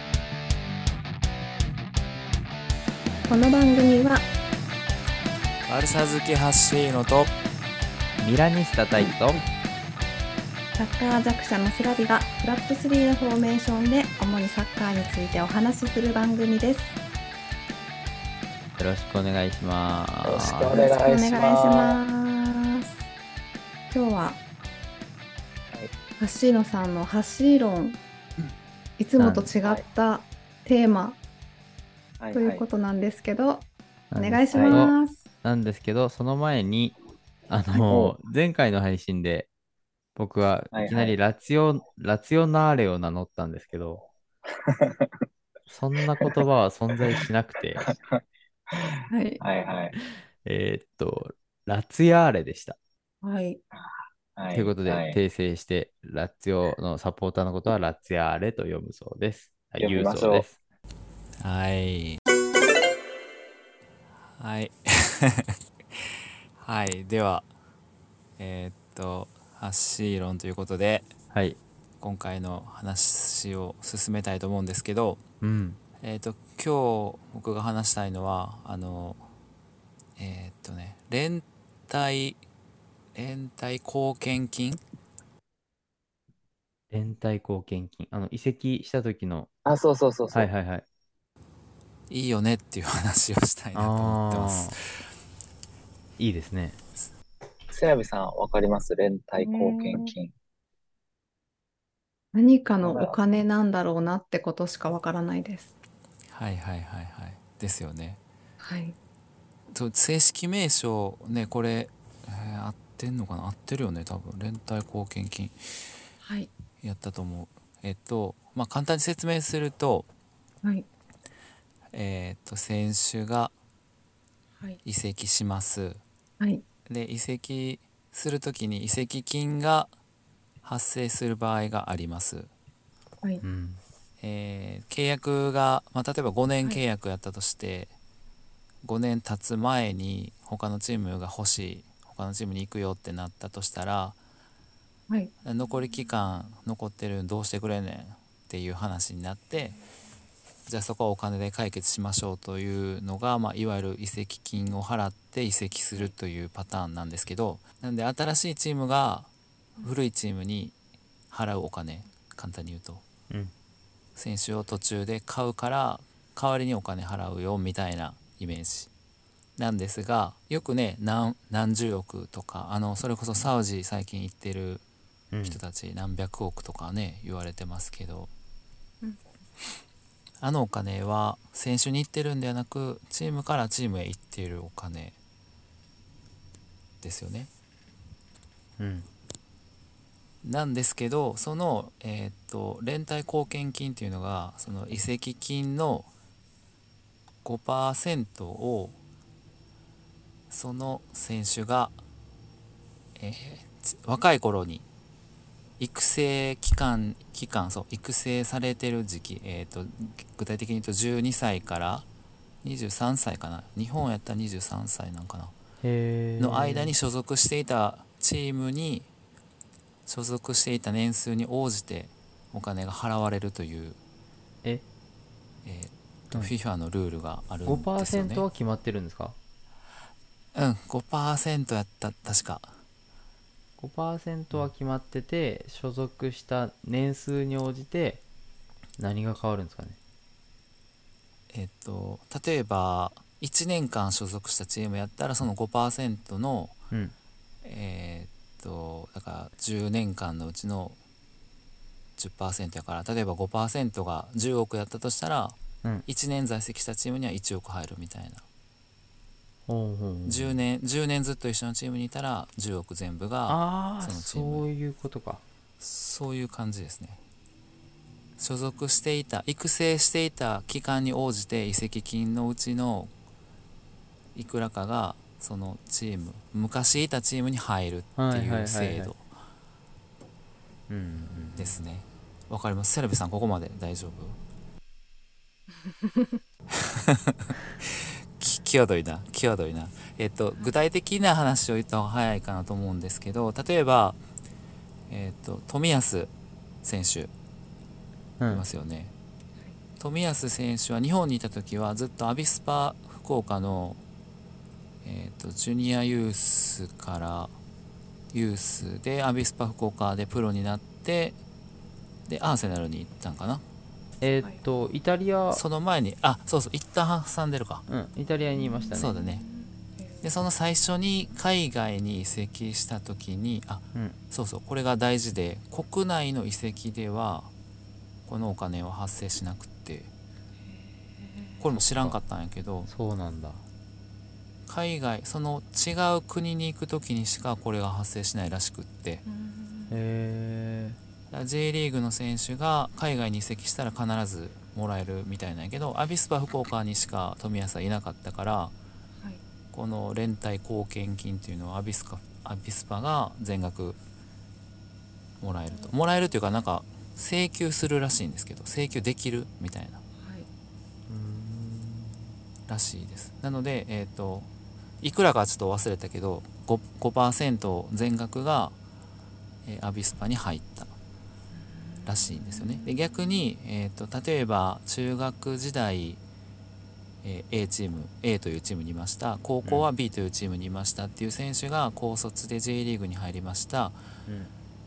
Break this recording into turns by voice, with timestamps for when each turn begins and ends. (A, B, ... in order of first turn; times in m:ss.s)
0:03.2-0:04.3 A
0:05.7-0:07.3 B
0:08.2-0:09.4 C
0:10.8-0:17.0 A
0:18.8-0:20.7 C
0:20.2-0:22.0 D
0:20.7-0:23.0 A
0:23.9-0:24.4 A
0:26.2-0:28.0 A
0:29.0-0:31.2 A
0:29.2-0:29.5 C
0:32.2-0:32.6 D
0:32.3-0:35.2 A
0:34.1-0:37.0 C
0:34.5-0:34.9 D
0:37.5-0:39.5 C
0:37.8-0:38.2 D
0:40.2-0:44.0 C
0:40.7-0:41.2 D
0:44.5-0:45.3 D
0:45.7-0:47.8 C
0:47.8-0:48.2 D
0:49.1-0:49.4 A
0:49.4-0:50.0 D
0:50.0-0:52.8 C
0:53.2-0:53.6 A
0:54.4-0:55.2 D
0:54.5-1:00.6 C
0:59.8-1:00.4 D
1:01.4-1:02.2 B
1:04.3-1:07.5 B
1:08.4-1:11.1 B
1:11.3-1:11.6 C
1:12.0-1:15.2 B
1:15.4-1:15.8 C
1:16.0-1:19.2 B
1:20.2-1:22.4 B
1:23.2-1:24.8 B
1:26.9-1:29.5 C
1:29.6-1:30.5 D
1:30.3-1:30.8 C
1:32.1-1:34.8 B
1:33.8-1:34.8 C
1:36.2-1:36.8 C
1:37.7-1:40.3 D
1:39.4-1:40.1 A
1:42.3-1:45.8 A
1:42.8-1:43.2 D
1:46.3-1:48.2 B
1:48.6-1:49.0 A
1:49.7-1:55.8 B
1:56.2-1:56.5 A
1:56.8-2:00.1 B
2:01.9-2:03.5 B
2:04.8-2:06.0 B
2:06.9-2:09.9 B
2:10.6-2:12.5 B
2:13.4-2:13.8 C
2:14.2-2:17.9 B
2:18.8-2:24.2 B
2:25.4-2:29.8 B
2:30.7-2:39.3 B
2:39.8-2:40.8 B
2:41.3-2:43.0 B
2:44.2-2:48.9 B
2:49.6-2:54.8 B
2:55.3-2:55.6 C
2:55.4-2:58.3 B
3:00.4-3:05.2 B
3:07.0-3:07.5 B
3:08.8-3:09.1 C
3:10.4-3:16.1 B
3:17.4-3:19.0 B
3:20.5-3:22.0 B
3:23.2-3:24.8 B
3:25.8-3:32.1 B
3:32.6-3:35.5 B
3:35.8-3:36.9 C
3:36.4-3:39.1 B
3:40.1-3:44.0 B
3:45.6-3:48.5 B
3:47.6-3:49.4 C
3:50.6-3:52.7 B
3:53.8-3:58.2 C
3:59.0-4:00.0 C
4:01.5-4:06.8 B
4:07.6-4:11.0 B
4:12.2-4:18.4 B
4:19.7-4:20.6 C
4:20.3-4:24.7 B
4:23.5-4:25.4 C
4:25.8-4:27.2 B
4:28.4-4:33.1 B
4:34.3-4:39.2 B
4:38.2-4:39.1 C
4:40.9-4:41.8 C
4:41.6-4:44.4 B
4:45.8-4:46.3 A
4:46.7-4:54.2 B
4:55.1-4:56.3 B
4:56.8-4:57.3 B
4:58.4-4:58.6 C
4:58.5-4:59.1 B
5:00.0-5:04.0 B
5:05.0-5:07.6 B
5:08.3-5:11.4 B
5:12.3-5:13.6 B
5:14.2-5:15.6 C
5:15.5-5:17.9 B
5:17.9-5:19.1 C
5:18.6-5:20.2 A
5:18.9-5:19.4 B
5:20.2-5:27.5 B
5:28.3-5:30.1 B
5:30.7-5:31.6 A
5:31.6-5:32.9 B
5:31.8-5:32.2 C
5:32.9-5:33.6 C
5:34.7-5:39.2 B
5:39.3-5:39.9 A
5:39.9-5:41.0 C
5:41.3-5:48.8 B
5:49.7-5:54.0 B
5:55.4-6:00.0 B
5:55.7-5:56.0 A
6:00.2-6:00.5 A
6:01.1-6:02.3 C
6:02.7-6:04.5 B
6:05.0-6:08.8 B
6:09.6-6:10.9 B
6:11.8-6:13.2 A
6:12.0-6:16.2 B
6:17.2-6:24.0 B
6:19.6-6:19.9 C
6:24.3-6:24.5 C